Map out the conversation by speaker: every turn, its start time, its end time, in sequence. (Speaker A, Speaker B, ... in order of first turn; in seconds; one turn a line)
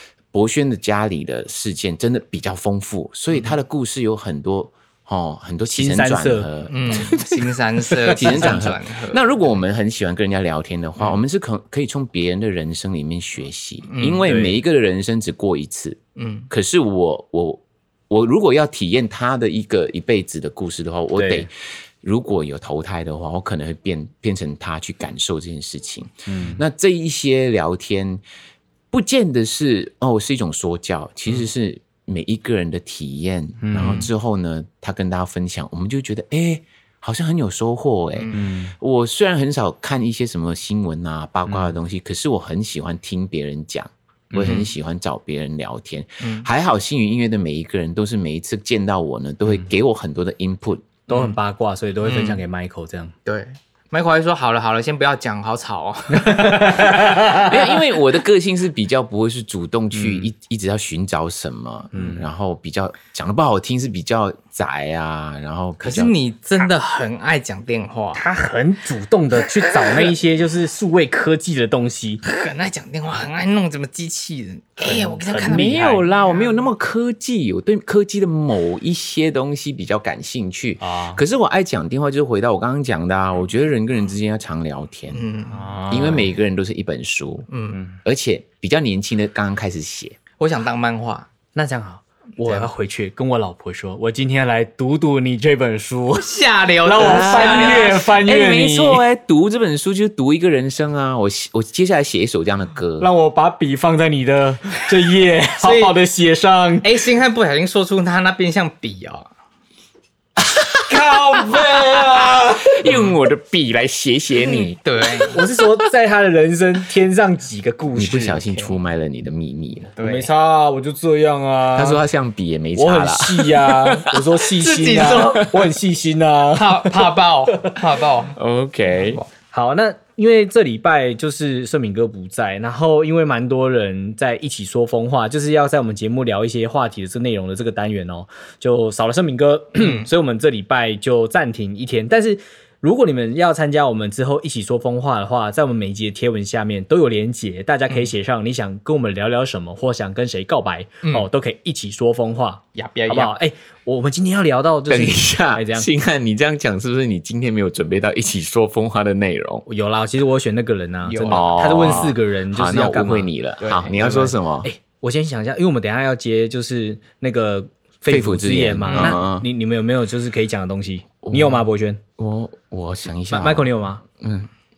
Speaker A: 0.3-7.2
Speaker B: 5.8-7.2
Speaker C: 6.7-9.6
Speaker B: 7.9-8.6
Speaker A: 8.1-16.0
Speaker C: 13.9-14.3
Speaker B: 14.2-14.6
Speaker C: 16.1-16.5
Speaker A: 16.5-28.2
Speaker B: 21.1-21.5
Speaker B: 26.3-26.6
Speaker A: 28.9-51.0
Speaker B: 33.6-34.1
Speaker C: 38.1-38.4
Speaker B: 38.3-38.7
Speaker B: 41.5-41.7
Speaker B: 44.3-44.7
Speaker C: 46.2-46.5
Speaker B: 51.1-53.1
Speaker C: 51.1-51.4
Speaker C: 52.0-52.4
Speaker C: 53.2-57.4
Speaker B: 56.2-57.5
Speaker A: 57.1-66.1
Speaker B: 59.9-60.2
Speaker B: 61.9-62.2
Speaker C: 65.8-68.2
Speaker B: 68.1-72.2
Speaker C: 72.2-76.7
Speaker B: 74.8-76.0
Speaker A: 75.5-85.2
Speaker B: 80.8-81.2
Speaker C: 85.1-85.8
Speaker B: 85.5-86.3
Speaker A: 85.9-87.5
Speaker C: 87.5-87.8
Speaker A: 88.0-90.2
Speaker C: 90.4-91.3
Speaker B: 91.5-99.0
Speaker C: 92.4-92.7
Speaker C: 96.1-98.2
Speaker A: 97.0-103.1
Speaker B: 103.0-106.9
Speaker C: 105.6-105.9
Speaker C: 106.8-109.3
Speaker B: 110.9-112.8
Speaker A: 112.2-114.8
Speaker C: 112.8-113.1
Speaker C: 114.4-115.4
Speaker B: 115.2-118.4
Speaker A: 117.9-120.0
Speaker C: 118.5-118.7
Speaker C: 120.0-120.3
Speaker B: 120.0-122.0
Speaker A: 121.7-124.4
Speaker B: 122.7-127.8
Speaker C: 124.5-125.5
Speaker A: 125.4-125.7
Speaker C: 126.5-128.4
Speaker A: 128.4-129.2
Speaker B: 129.5-155.9
Speaker C: 139.8-140.1
Speaker C: 152.7-153.4
Speaker A: 154.9-159.6
Speaker B: 159.7-172.0
Speaker C: 161.0-161.9
Speaker A: 161.3-164.7
Speaker C: 163.6-164.2
Speaker A: 168.1-169.5
Speaker C: 168.9-169.2
Speaker A: 171.2-171.6
Speaker A: 172.2-174.5
Speaker B: 173.3-174.0